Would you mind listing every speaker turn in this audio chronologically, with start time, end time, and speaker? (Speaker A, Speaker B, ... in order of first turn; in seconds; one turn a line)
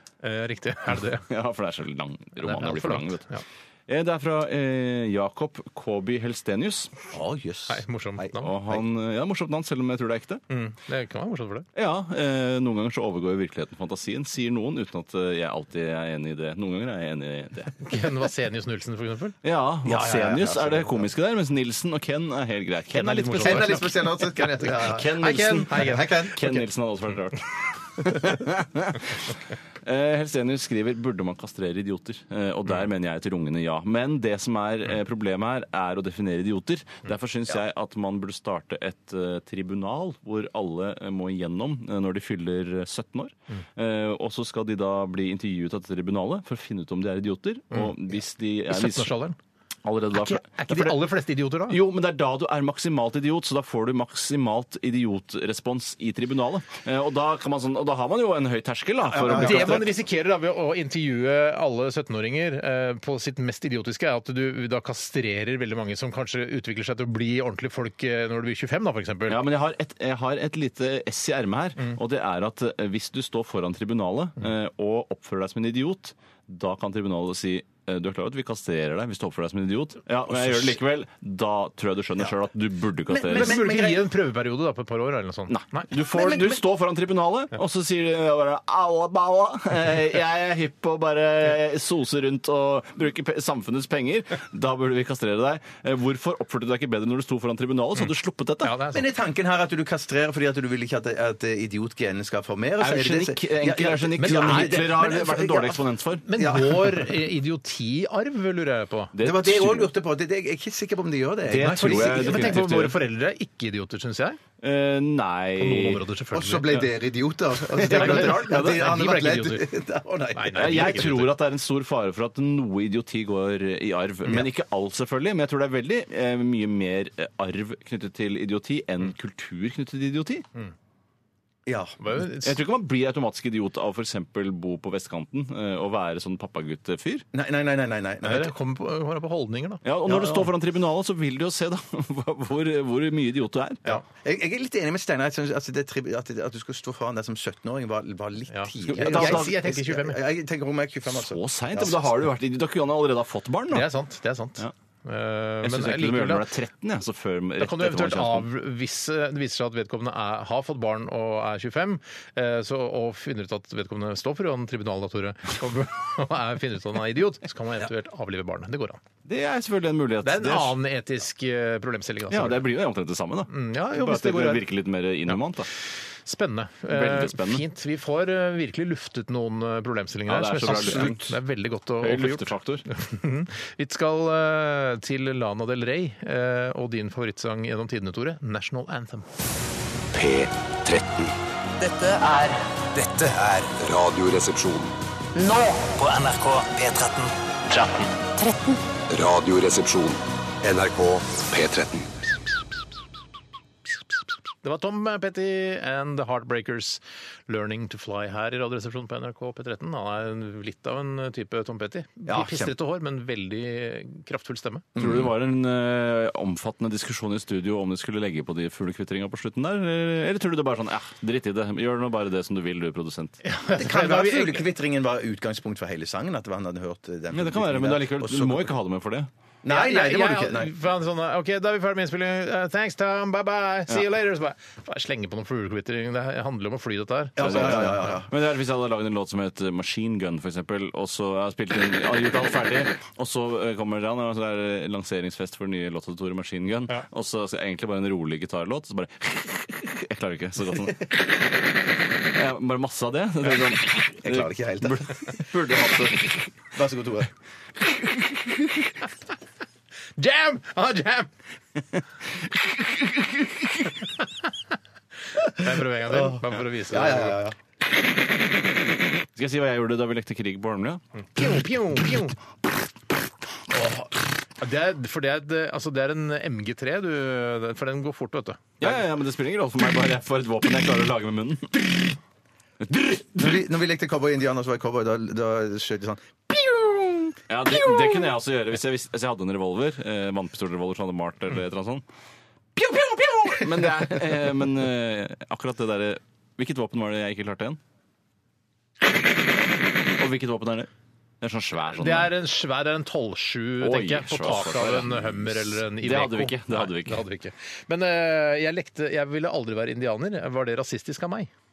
Speaker A: 0.2-1.2
Speaker B: 1.2-3.2
Speaker A: 2.4-3.4
Speaker B: 3.9-6.9
Speaker C: 7.1-8.8
Speaker A: 7.7-8.5
Speaker B: 8.4-10.4
Speaker A: 10.5-11.7
Speaker B: 11.8-17.8
Speaker A: 17.8-19.4
Speaker B: 19.4-23.9
Speaker C: 19.9-21.1
Speaker A: 22.9-24.3
Speaker C: 23.4-26.6
Speaker B: 24.7-29.3
Speaker A: 25.2-26.6
Speaker B: 29.9-49.1
Speaker A: 48.7-49.4
Speaker B: 49.8-51.0
Speaker A: 50.1-51.8
Speaker B: 51.7-59.9
Speaker C: 59.1-59.9
Speaker A: 59.3-69.4
Speaker B: 69.3-83.6
Speaker C: 80.3-80.8
Speaker A: 83.1-85.9
Speaker C: 83.3-84.1
Speaker B: 85.5-98.7
Speaker C: 85.9-86.6
Speaker A: 98.6-99.1
Speaker C: 98.9-105.8
Speaker B: 102.8-106.3
Speaker A: 104.2-104.8
Speaker A: 106.3-109.1
Speaker C: 106.4-107.1
Speaker B: 109.1-109.9
Speaker C: 109.2-112.6
Speaker B: 111.5-113.0
Speaker A: 111.5-114.4
Speaker B: 114.6-116.0
Speaker A: 115.6-116.9
Speaker C: 116.3-121.2
Speaker B: 117.8-118.9
Speaker A: 117.8-119.7
Speaker A: 120.3-121.3
Speaker B: 120.5-130.5
Speaker C: 131.7-132.0
Speaker A: 132.0-132.5
Speaker B: 132.4-137.3
Speaker C: 137.3-138.5
Speaker A: 138.2-139.8
Speaker B: 139.8-143.9
Speaker C: 140.1-140.5
Speaker C: 144.1-152.3
Speaker A: 148.5-150.2
Speaker B: 148.8-149.6
Speaker B: 151.1-153.9
Speaker A: 153.7-156.5
Speaker B: 155.6-158.5
Speaker A: 157.6-169.0
Speaker B: 169.2-170.8
Speaker A: 170.2-172.7
Speaker B: 172.3-175.7
Speaker A: 173.5-174.7
Speaker A: 176.3-189.3
Speaker B: 176.9-177.7
Speaker B: 180.3-181.4
Speaker B: 182.0-182.8
Speaker D: 190.1-191.3
Speaker E: 191.8-193.3
Speaker D: 193.3-194.9
Speaker E: 195.4-198.2
Speaker D: 199.1-202.2
Speaker A: 204.6-214.9
Speaker C: 212.3-212.7
Speaker C: 215.0-215.3
Speaker B: 215.0-223.4
Speaker A: 223.4-224.7
Speaker C: 223.8-228.7
Speaker B: 227.3-229.3
Speaker C: 229.6-230.7
Speaker A: 229.7-238.1
Speaker C: 237.4-238.3
Speaker B: 237.4-251.1
Speaker B: 252.2-256.5
Speaker C: 253.5-255.1
Speaker C: 256.7-257.3
Speaker A: 260.2-261.3
Speaker A: 265.4-267.4
Speaker C: 265.6-267.6
Speaker B: 269.4-271.0
Speaker A: 271.4-272.4
Speaker A: 273.7-278.9
Speaker B: 278.8-282.2
Speaker B: 282.8-283.6
Speaker C: 283.4-288.3
Speaker B: 287.5-292.0
Speaker B: 292.8-297.8
Speaker B: 300.2-300.9
Speaker B: 301.4-302.3
Speaker A: 302.0-311.5
Speaker B: 303.8-307.2